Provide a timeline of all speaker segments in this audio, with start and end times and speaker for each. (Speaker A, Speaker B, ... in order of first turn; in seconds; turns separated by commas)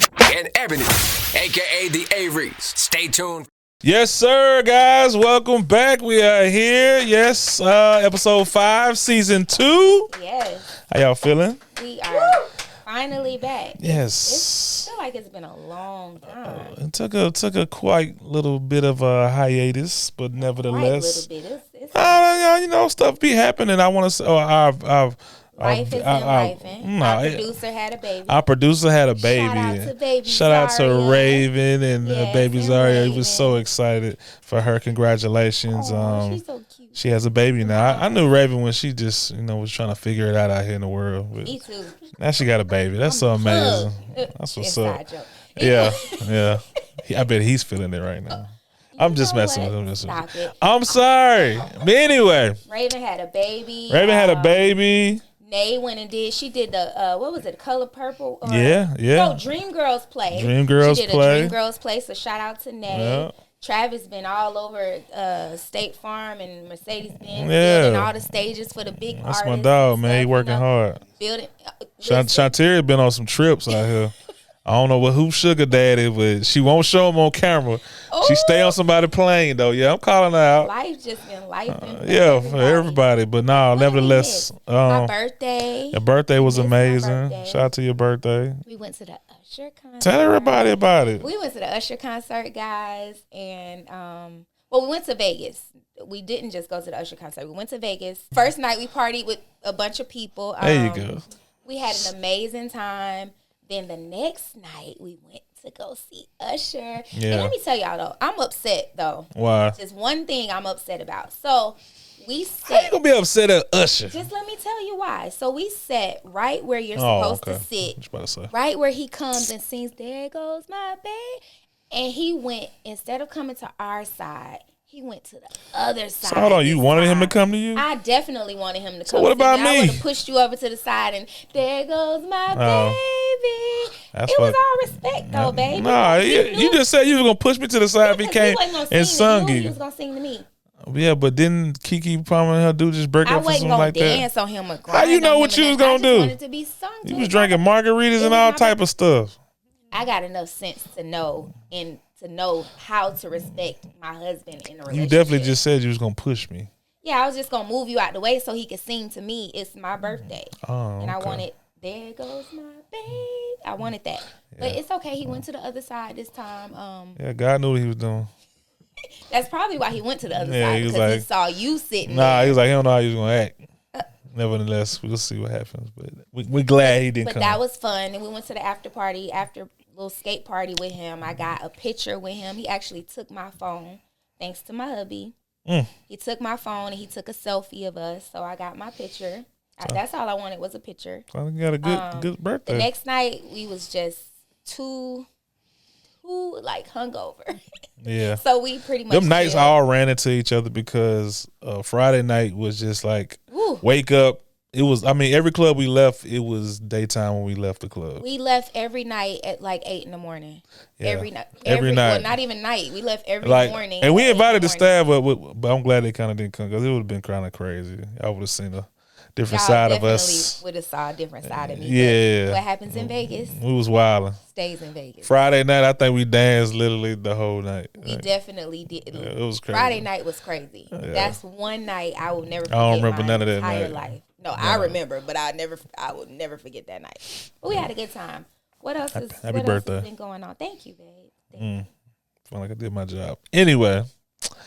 Speaker A: 0.2-3.5, Speaker B: 3.8-10.1, Speaker C: 10.1-10.7, Speaker B: 10.8-11.6, Speaker C: 11.8-16.7, Speaker B: 13.8-14.9, Speaker B: 16.3-21.3, Speaker C: 20.6-22.3, Speaker B: 21.9-27.5, Speaker C: 25.6-28.4, Speaker B: 28.3-36.4, Speaker C: 29.2-31.5, Speaker C: 32.0-33.6, Speaker C: 35.7-37.0, Speaker B: 37.0-41.6, Speaker C: 37.6-38.2, Speaker C: 41.4-42.0, Speaker B: 42.1-45.0, Speaker C: 43.1-46.5, Speaker B: 45.6-52.6, Speaker C: 49.0-50.5, Speaker C: 52.7-54.7, Speaker B: 53.9-55.2, Speaker C: 55.4-72.6, Speaker B: 58.4-59.4, Speaker B: 60.3-61.6, Speaker B: 62.9-63.3, Speaker B: 67.3-68.1, Speaker B: 69.1-71.0, Speaker B: 72.0-74.1, Speaker B: 74.7-80.7, Speaker C: 78.1-78.8, Speaker C: 80.6-83.0, Speaker B: 81.7-85.1, Speaker C: 83.7-87.7, Speaker B: 85.9-88.6, Speaker C: 88.7-101.1, Speaker B: 90.0-91.3, Speaker B: 100.6-101.2, Speaker C: 101.7-113.0, Speaker B: 107.1-107.5, Speaker B: 109.3-109.8, Speaker B: 112.7-114.2, Speaker C: 114.1-118.0, Speaker B: 117.0-118.5, Speaker C: 118.5-136.8, Speaker B: 126.2-127.8, Speaker B: 129.1-130.0, Speaker B: 132.5-133.0, Speaker B: 134.1-134.6, Speaker B: 135.2-139.8, Speaker C: 138.0-140.5, Speaker B: 140.8-144.3, Speaker C: 143.2-147.6, Speaker B: 144.9-146.4, Speaker B: 147.0-149.4, Speaker C: 148.2-148.8, Speaker C: 149.9-155.6, Speaker B: 154.9-156.7, Speaker C: 157.0-167.2, Speaker B: 160.6-161.4, Speaker B: 164.5-164.8, Speaker B: 167.2-168.3, Speaker C: 169.3-172.6, Speaker B: 170.3-171.2, Speaker B: 172.0-173.6, Speaker B: 174.3-177.6, Speaker C: 176.8-185.3, Speaker B: 185.7-185.9, Speaker C: 186.1-191.2, Speaker B: 191.3-192.9, Speaker C: 191.8-195.3, Speaker C: 196.2-197.6, Speaker B: 198.0-198.4, Speaker C: 198.4-199.8, Speaker B: 199.1-208.2, Speaker C: 203.5-203.8, Speaker C: 208.2-214.9, Speaker B: 211.0-212.3, Speaker B: 213.4-220.6, Speaker C: 219.5-223.6, Speaker B: 221.4-224.4, Speaker C: 224.5-225.3, Speaker B: 225.2-228.3, Speaker C: 228.0-241.8, Speaker B: 229.1-230.1, Speaker B: 230.9-231.4, Speaker B: 232.7-235.0, Speaker B: 239.1-240.1, Speaker B: 241.6-241.9, Speaker B: 242.5-244.1